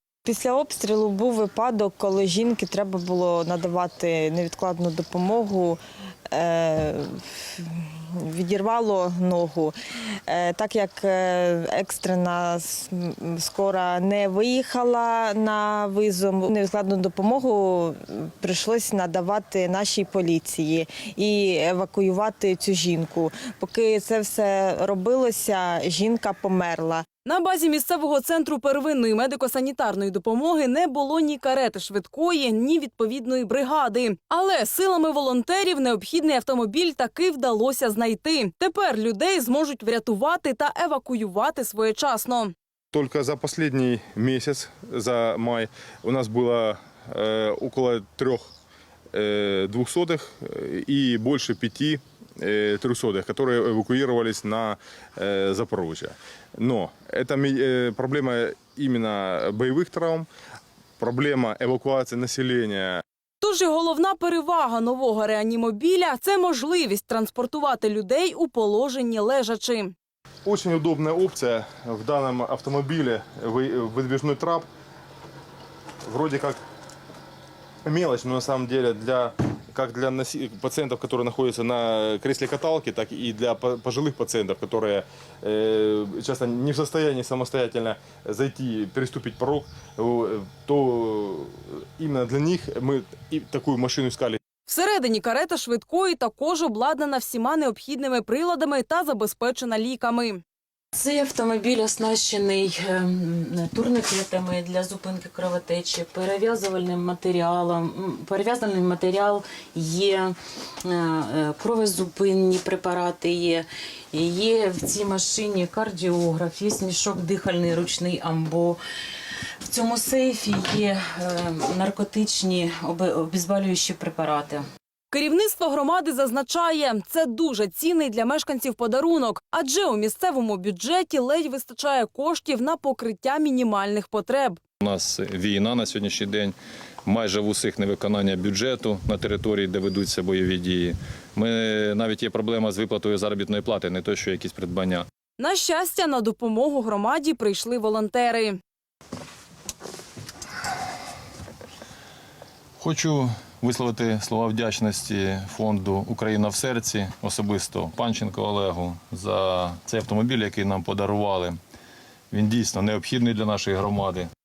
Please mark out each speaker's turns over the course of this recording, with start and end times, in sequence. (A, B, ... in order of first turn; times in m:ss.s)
0:00.2-0:05.8 A
0:06.3-0:09.7 A
0:10.3-0:27.0 A
0:27.2-0:42.5 B
0:42.9-0:48.5 C
0:49.1-1:00.3 C
1:01.0-1:03.0 C
1:03.4-1:09.9 B
1:10.4-1:14.7 C
1:16.0-1:16.6 C
1:17.8-1:34.4 C
1:34.6-1:40.4 B
1:41.0-1:42.8 D
1:43.5-1:49.3 D
1:49.8-1:50.2 D
1:51.6-1:53.5 D
1:54.1-1:58.7 D
1:59.7-2:04.6 D
2:05.1-2:14.6 B
2:14.8-2:25.0 E
2:25.4-2:28.6 B
2:32.8-2:41.6 E
2:42.3-2:44.3 E